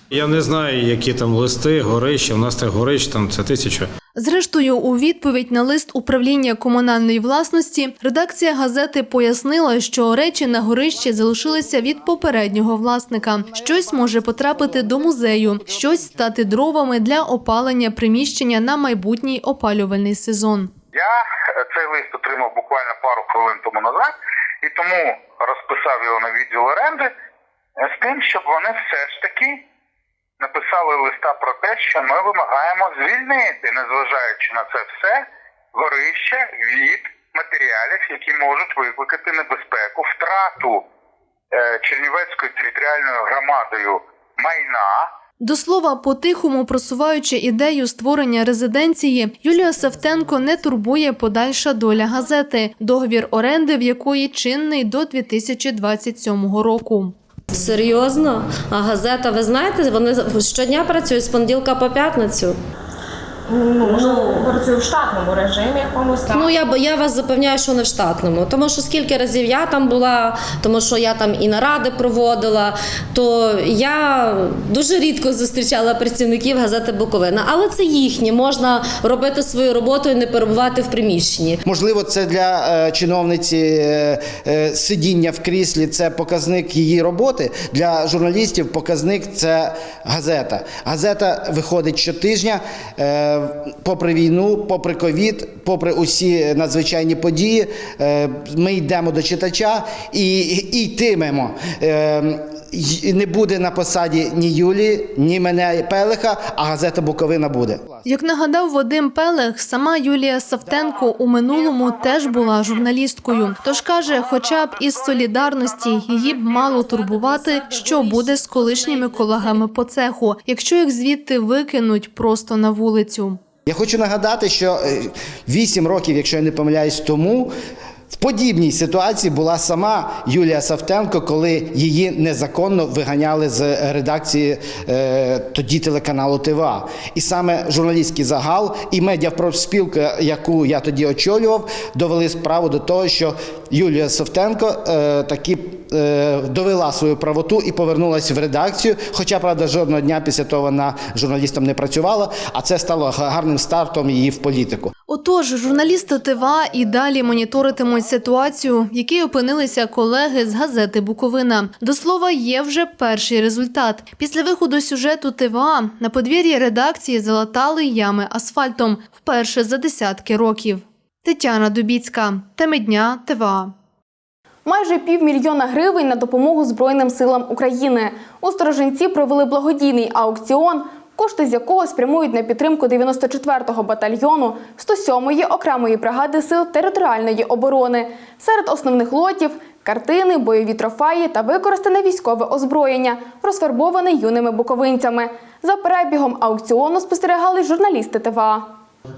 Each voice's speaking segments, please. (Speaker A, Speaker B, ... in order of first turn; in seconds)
Speaker A: 0.1-3.9
Speaker B: 4.2-20.7, 45.4-57.1, 108.0-123.4, 155.1-173.7
Speaker C: 20.9-27.1, 27.8-29.6, 30.4-40.8, 41.5-45.1
Speaker D: 57.5-62.6, 64.0-64.5, 66.3-81.6, 117.0-119.5
Speaker E: 63.5-66.5
Speaker F: 81.7-107.8, 123.7-127.5, 128.1-154.9
Speaker G: 174.7-198.8